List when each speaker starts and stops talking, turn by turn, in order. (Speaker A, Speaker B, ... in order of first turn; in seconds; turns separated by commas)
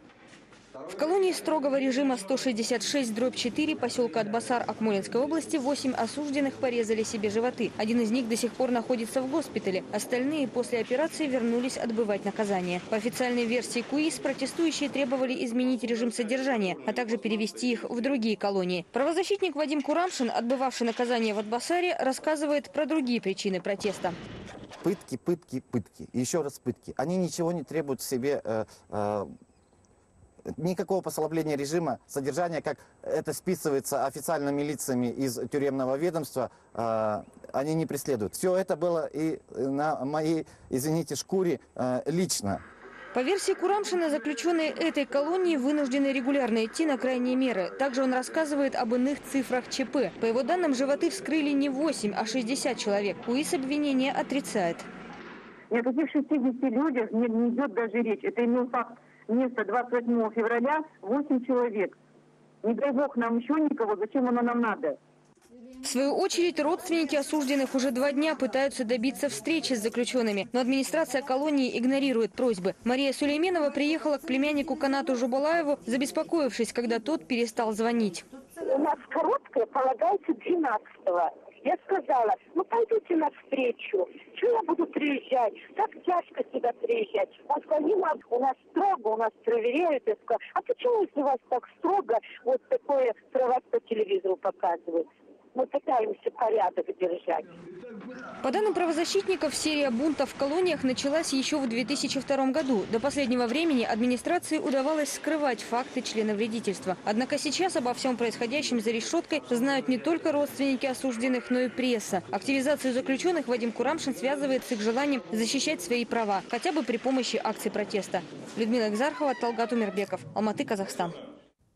Speaker A: 0.9-24.1, Speaker B: 24.8-29.3, Speaker B: 30.5-42.6, Speaker A: 43.1-54.9, Speaker C: 55.7-61.9, Speaker C: 62.6-65.0, Speaker A: 65.8-78.2, Speaker D: 78.6-95.0, Speaker D: 95.5-97.4, Speaker A: 98.4-121.2